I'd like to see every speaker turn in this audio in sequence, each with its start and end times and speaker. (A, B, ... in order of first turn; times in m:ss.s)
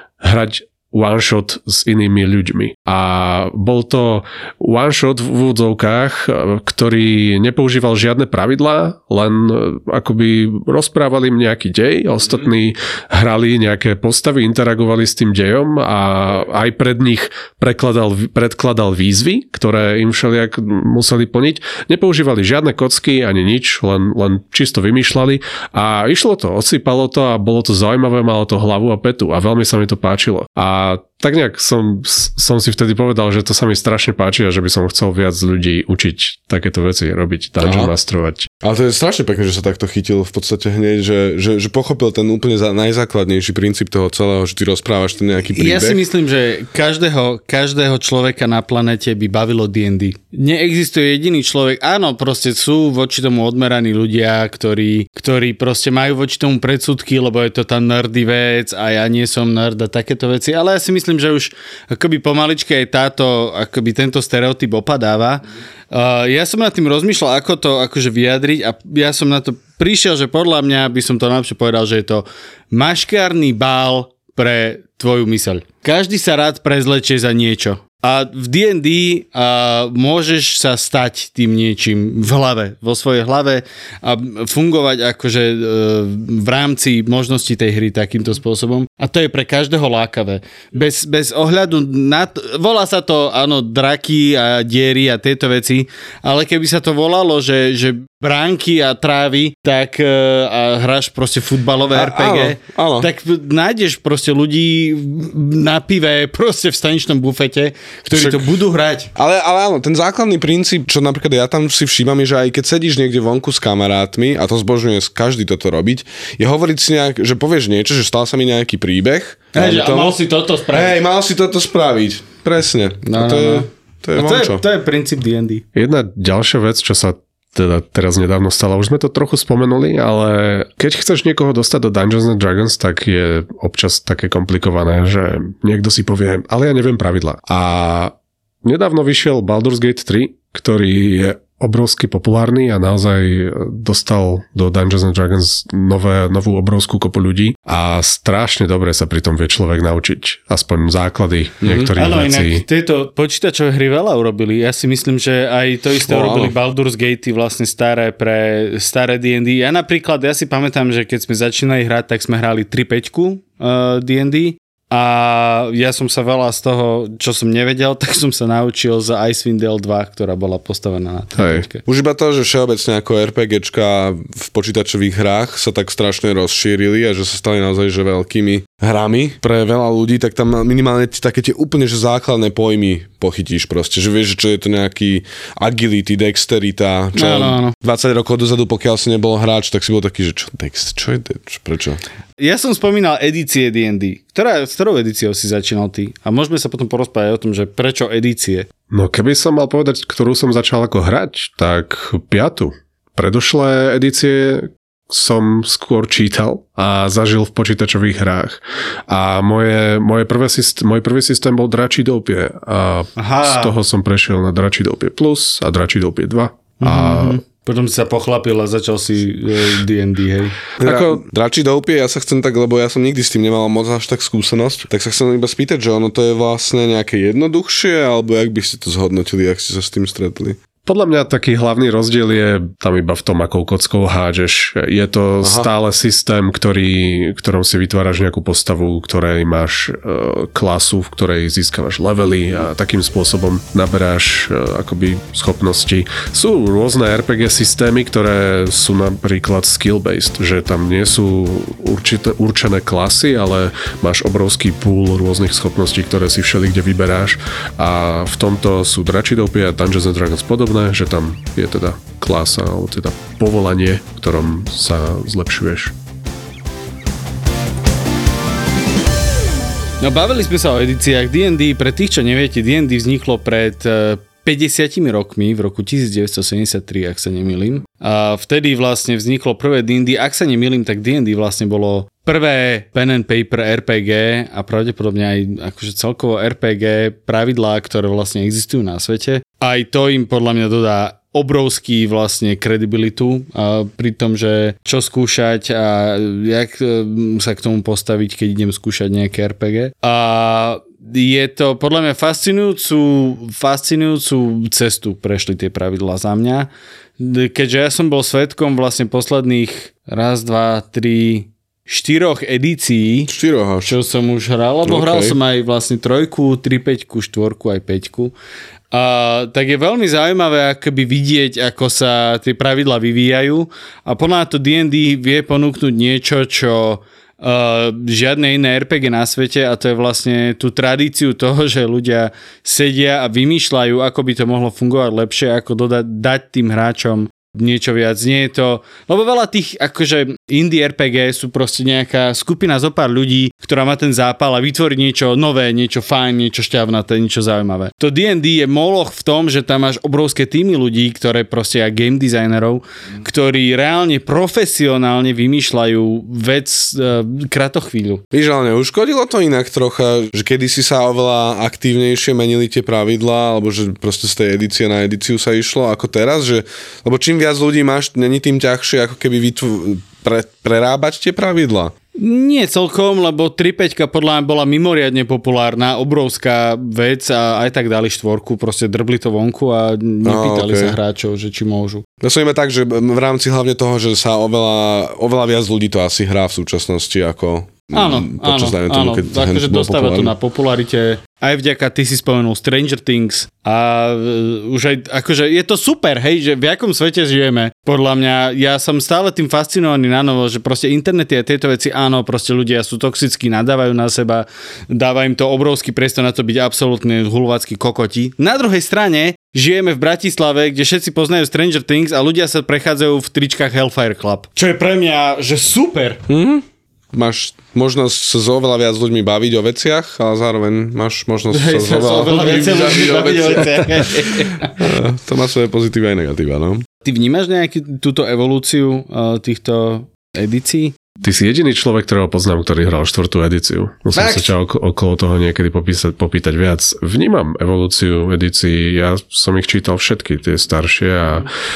0:00.2-0:38.5 A
0:37.6-0:37.9 B
0:38.6-0:46.0 B
0:45.5-1:49.1 C
1:41.9-1:43.1 B
1:48.1-1:48.5 B
1:49.2-2:04.6 B
1:59.5-2:01.0 C
2:03.0-2:05.6 C
2:05.7-2:32.6 A
2:31.6-2:31.9 B
2:32.0-2:51.8 C
2:36.0-2:36.5 B
2:51.4-2:51.6 A
2:51.8-3:12.0 B
3:07.2-3:07.7 C
3:12.4-3:18.7 C
3:18.9-3:37.4 A
3:33.2-3:33.7 C
3:36.8-3:40.6 C
3:40.8-3:41.2 A
3:40.8-3:50.6 B
3:50.8-4:25.9 A
3:55.4-3:55.7 B
4:30.0-5:13.3 C
5:13.3-5:13.9 B
5:13.8-5:18.3 C
5:14.8-5:15.4 B
5:18.9-5:58.2 C
5:58.3-6:11.9 B
6:12.1-6:22.0 C
6:20.2-6:21.0 B
6:22.2-6:30.3 B
6:27.9-6:56.2 C
6:56.3-7:06.8 B
7:01.5-7:04.7 C
7:07.0-7:10.9 C
7:11.2-7:21.5 A
7:14.1-7:14.5 C